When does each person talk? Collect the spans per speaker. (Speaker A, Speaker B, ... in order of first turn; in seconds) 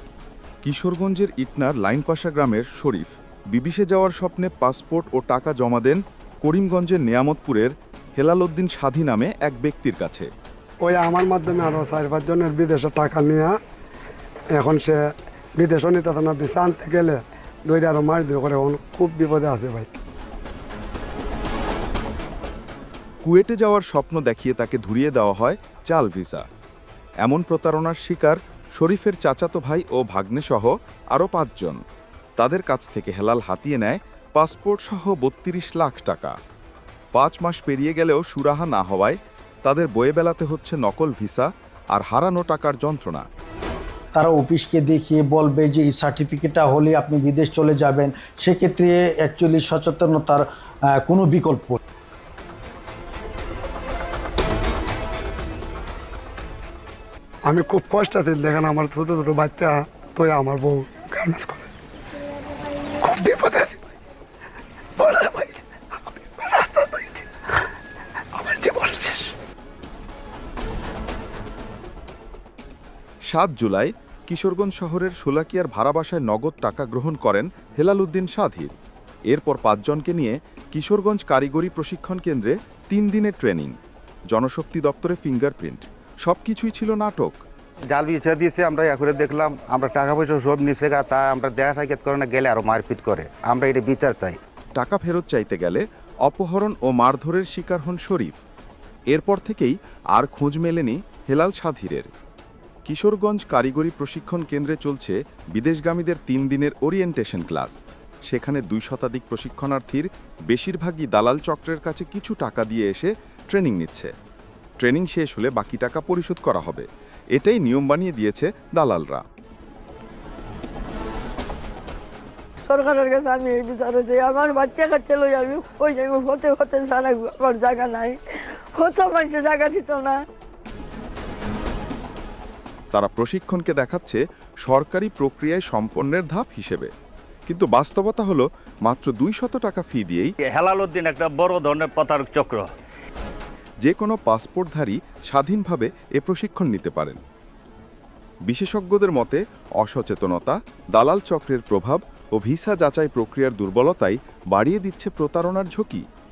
Speaker A: 0.6-10.3, 23.2-26.4, 27.2-31.8, 32.4-36.3, 37.1-43.2, 73.3-78.7, 79.3-83.7, 84.3-87.4, 94.7-98.4, 99.1-102.1, 102.8-114.1, 114.8-119.2, 132.9-136.9, 137.5-140.3, 143.8-147.2, 148.4-156.0
Speaker B: 10.8-13.5, 14.5-15.0, 15.6-19.9, 57.5-61.7, 63.0-63.8, 65.0-67.3, 68.3-69.3
Speaker C: 44.1-51.8
Speaker D: 87.9-94.4
Speaker E: 122.6-128.2, 128.8-130.2
Speaker F: 140.4-142.7